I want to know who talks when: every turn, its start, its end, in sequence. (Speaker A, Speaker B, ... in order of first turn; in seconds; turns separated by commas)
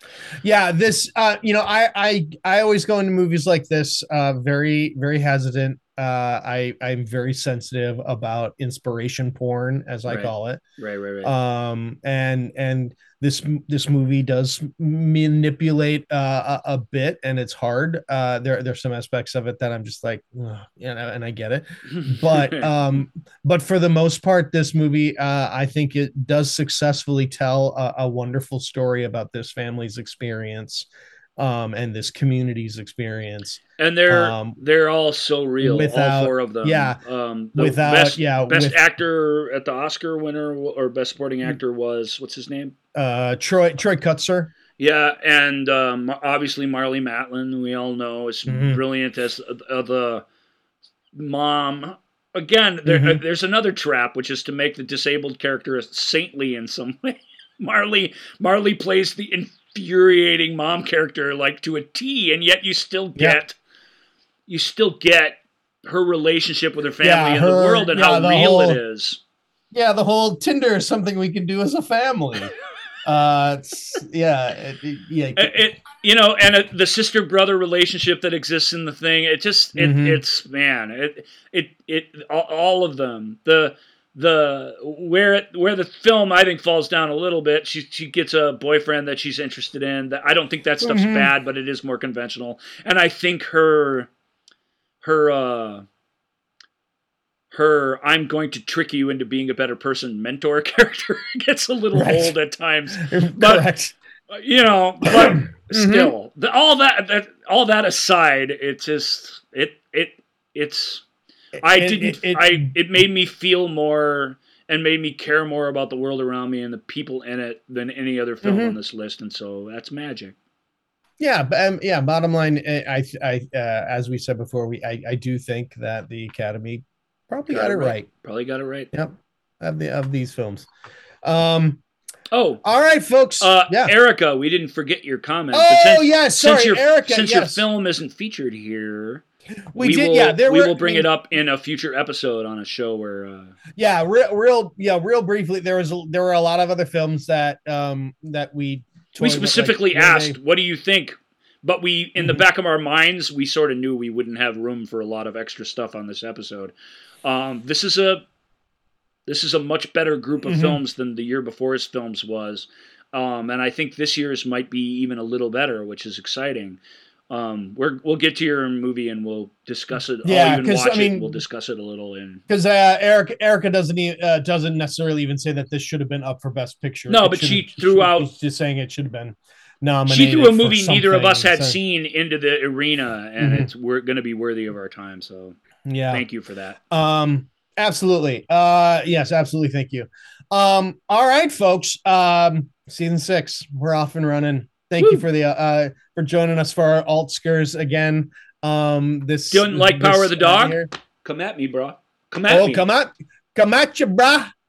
Speaker A: 0.4-10.6, Speaker B: 10.1-11.3, Speaker A: 11.2-34.6, Speaker B: 21.9-22.7, Speaker B: 33.8-42.7, Speaker A: 35.6-37.0, Speaker A: 37.5-38.8, Speaker A: 42.9-44.5, Speaker B: 44.8-50.2, Speaker A: 48.5-48.8, Speaker B: 51.1-63.5, Speaker A: 52.9-53.2, Speaker B: 64.5-69.2, Speaker A: 67.0-68.8, Speaker A: 69.7-72.5, Speaker A: 73.0-75.5, Speaker B: 75.3-94.1, Speaker A: 79.7-80.2, Speaker A: 90.8-91.3, Speaker B: 95.0-95.8, Speaker B: 97.5-103.7, Speaker A: 101.9-102.3, Speaker A: 102.9-104.0, Speaker B: 104.3-111.0, Speaker A: 105.0-106.1, Speaker A: 111.6-112.7, Speaker B: 111.6-120.3, Speaker A: 118.4-118.8, Speaker A: 121.2-128.1, Speaker B: 127.5-128.9, Speaker A: 128.9-130.7, Speaker A: 131.2-131.8, Speaker B: 132.3-132.6, Speaker A: 132.6-133.9, Speaker B: 133.4-139.2, Speaker A: 135.5-137.6, Speaker A: 139.7-141.1, Speaker B: 139.8-143.6, Speaker A: 143.8-150.4, Speaker B: 149.2-156.7, Speaker B: 157.2-158.2, Speaker B: 159.3-172.4, Speaker A: 160.4-160.8, Speaker A: 170.2-171.3, Speaker A: 172.5-181.8, Speaker B: 177.1-178.3, Speaker B: 180.1-185.6, Speaker A: 183.4-183.7, Speaker A: 185.8-186.2, Speaker B: 186.1-186.8, Speaker A: 186.9-200.9, Speaker B: 195.0-195.2, Speaker B: 199.5-202.8, Speaker A: 202.5-204.5